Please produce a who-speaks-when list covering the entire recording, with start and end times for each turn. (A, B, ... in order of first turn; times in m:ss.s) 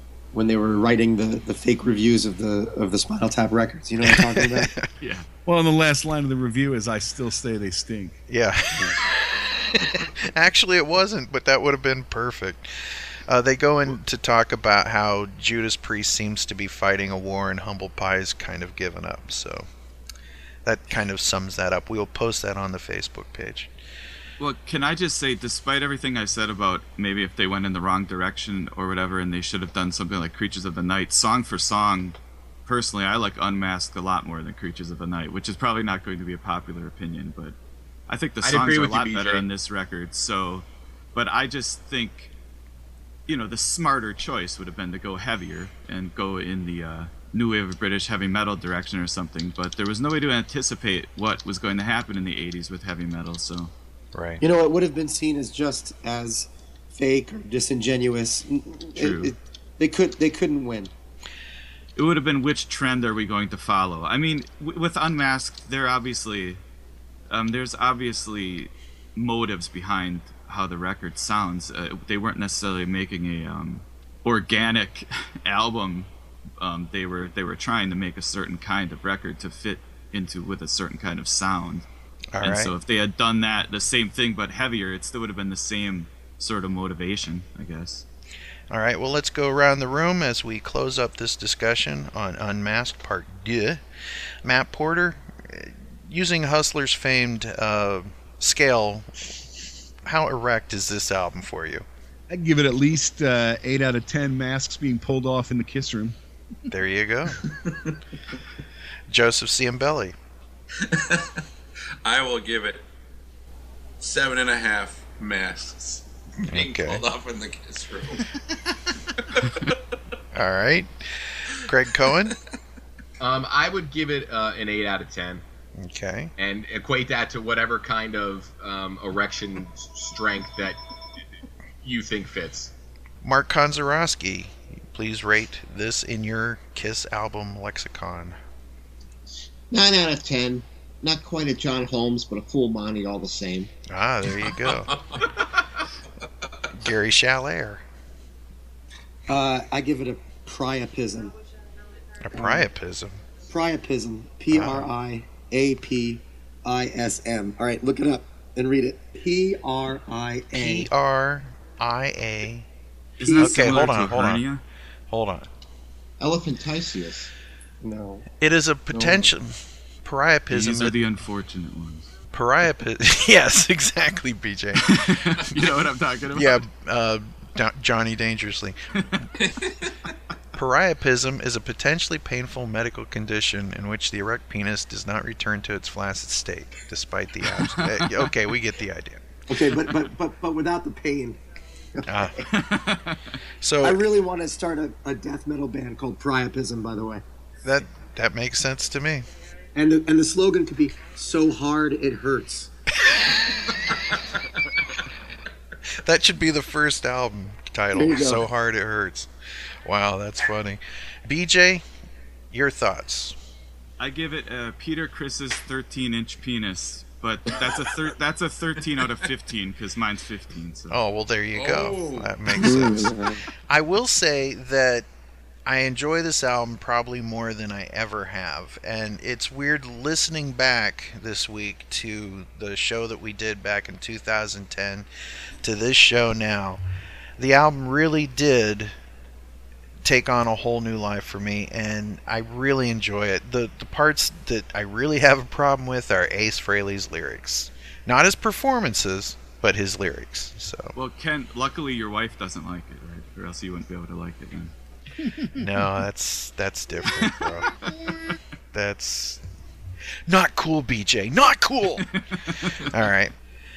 0:00.3-0:04.7 A
0:04.0-0:04.8 B
0:05.0-0:05.3 C
0:05.4-0:08.2 D
0:08.3-0:19.7 B
0:20.6-0:23.7 B
0:24.4-0:37.6 C
0:38.1-0:42.3 C
0:38.4-0:39.5 E
0:43.3-0:53.7 C
0:54.1-0:54.4 B
0:54.4-1:00.9 A
0:59.0-0:59.3 C
1:02.0-1:06.6 C
1:07.3-1:21.9 C
1:22.3-1:22.7 B
1:22.4-1:28.0 C
1:28.7-1:33.8 B
1:34.4-1:39.1 B
1:40.0-1:41.9 B
1:42.3-1:46.1 D
1:46.7-1:47.5 B
1:49.1-1:50.2 B
1:50.8-1:51.4 F
1:52.0-1:52.8 F
1:54.0-1:58.2 F
1:56.4-1:57.0 B
1:59.2-1:59.4 F
2:00.3-2:02.3 B
2:03.2-2:05.4 E
2:05.7-2:06.3 B
2:06.4-2:10.8 E
2:11.8-2:12.7 E
2:13.2-2:18.4 B
2:19.7-2:23.7 G
2:23.9-2:25.0 B
2:26.7-2:27.8 B
2:29.3-2:31.3 A
2:32.2-2:33.2 B
2:32.3-2:32.7 A
2:33.5-2:40.9 A
2:34.5-2:34.9 B
2:40.5-2:42.7 B
2:43.2-2:44.6 C
2:43.4-2:44.4 B
2:45.1-2:45.5 B
2:46.2-2:47.3 G
2:47.8-2:48.3 A
2:48.4-2:51.0 B
2:50.5-2:52.1 C
2:52.3-2:55.1 B
2:54.8-2:56.6 C
2:56.3-2:58.8 B
3:00.6-3:09.2 B
3:07.6-3:08.0 C
3:09.5-3:11.4 A
3:12.0-3:12.4 B
3:12.5-3:13.2 C
3:13.6-3:14.0 B
3:13.8-3:17.2 A
3:17.6-3:19.3 B
3:19.7-3:22.7 A
3:26.0-3:29.3 B
3:27.9-3:28.4 A
3:29.8-3:31.8 B
3:32.5-3:33.4 B
3:34.0-3:41.0 C
3:40.9-3:43.2 B
3:41.5-3:42.9 F
3:43.7-3:45.1 B
3:45.6-3:55.1 B
3:55.6-3:56.8 B
3:57.4-3:59.0 B
4:00.0-4:10.9 B
4:10.9-4:14.7 C
4:15.5-4:17.9 B
4:18.7-4:19.4 B
4:20.3-4:22.1 B
4:22.3-4:22.7 C
4:22.8-4:23.4 B